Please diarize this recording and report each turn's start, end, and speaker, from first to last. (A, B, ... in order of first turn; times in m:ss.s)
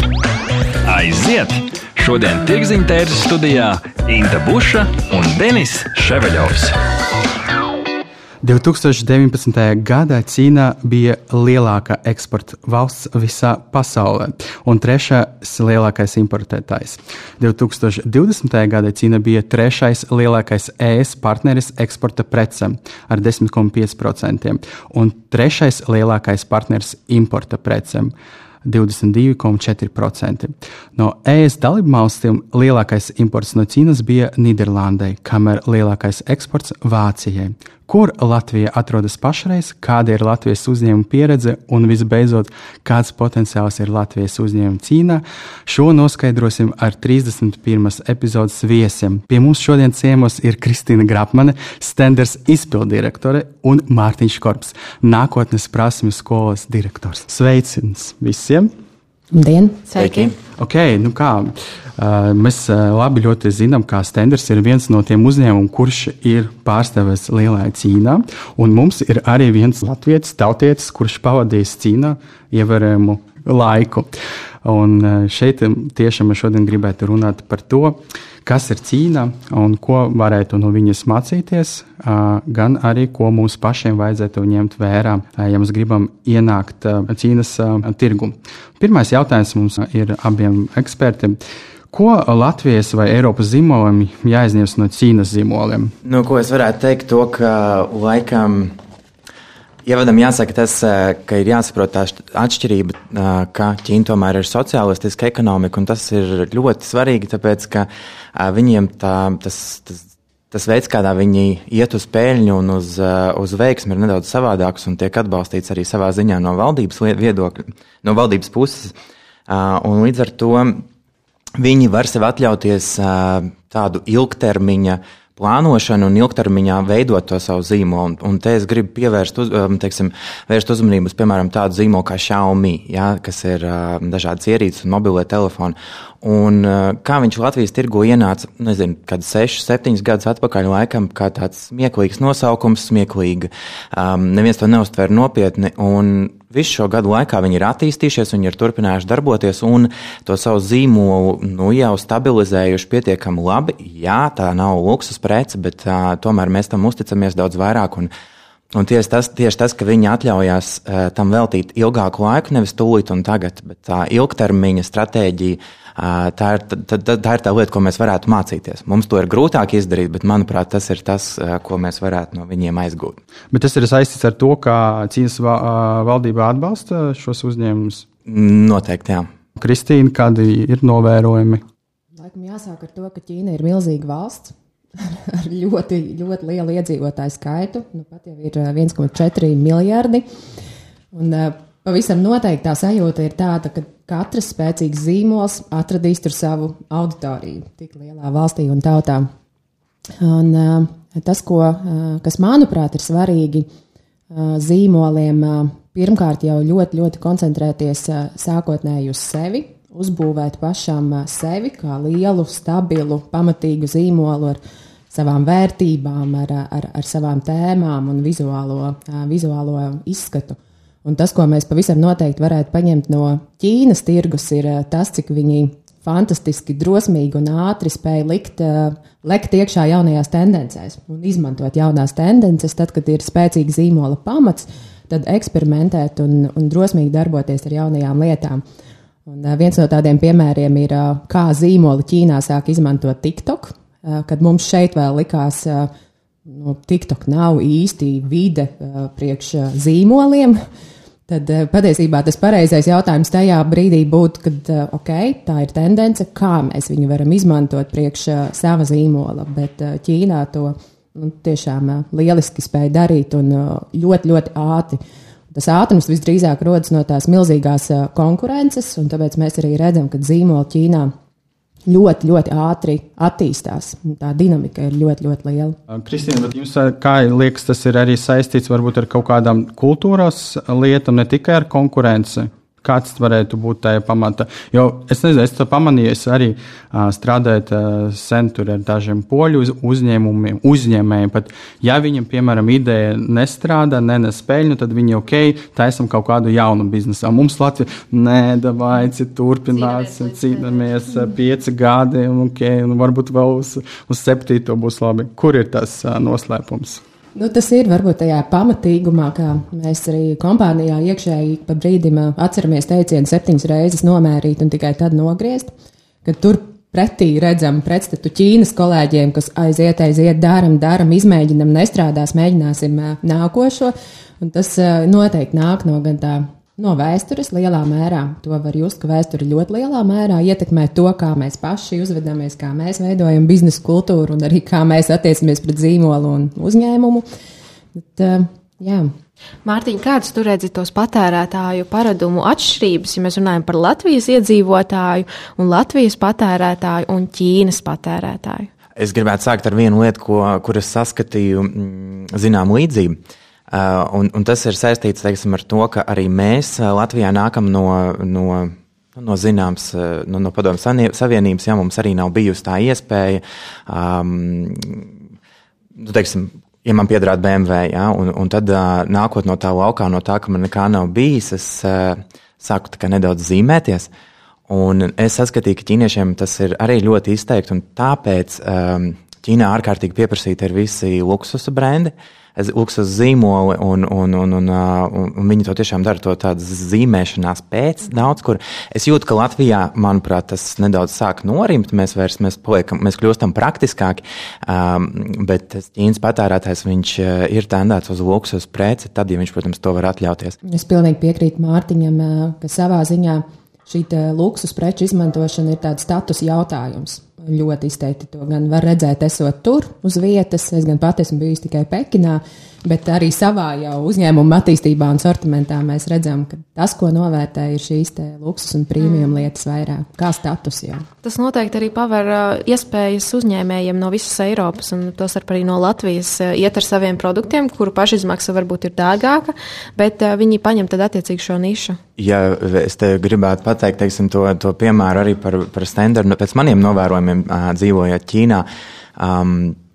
0:00.8-0:06.8 A
0:08.4-0:28.1 B
0:28.6-0:58.7 B
0:59.3-0:59.9 C
0:59.9-1:00.4 D
1:00.0-1:00.3 E
1:00.6-1:14.1 B
1:14.6-1:31.4 B
1:31.9-1:35.9 B
1:36.0-1:38.8 E
1:39.8-1:59.0 E
1:59.5-2:00.8 E
2:01.6-2:38.1 E
2:38.8-2:53.2 E
2:53.5-2:58.1 B
2:58.3-2:59.3 E
2:59.6-3:01.6 B
3:02.2-3:10.2 C
3:11.1-3:19.3 C
3:20.2-3:23.7 C
3:24.3-3:34.6 C
3:35.1-3:58.6 C
3:59.3-4:05.9 C
4:06.5-4:10.6 C
4:11.3-4:25.0 C
4:25.5-4:31.1 C
4:31.9-4:35.8 C
4:35.9-5:07.0 B
4:59.8-5:00.6 D
5:07.4-5:15.7 C
5:16.2-5:37.2 C
5:38.0-5:39.1 C
5:39.6-5:48.7 D
5:49.0-5:53.2 E
5:53.7-6:05.1 E
6:06.0-6:14.1 E
6:14.7-6:40.6 E
6:40.6-7:01.1 C
6:59.0-6:59.4 D
7:01.2-7:12.0 D
7:12.2-7:18.6 E
7:19.2-7:19.8 E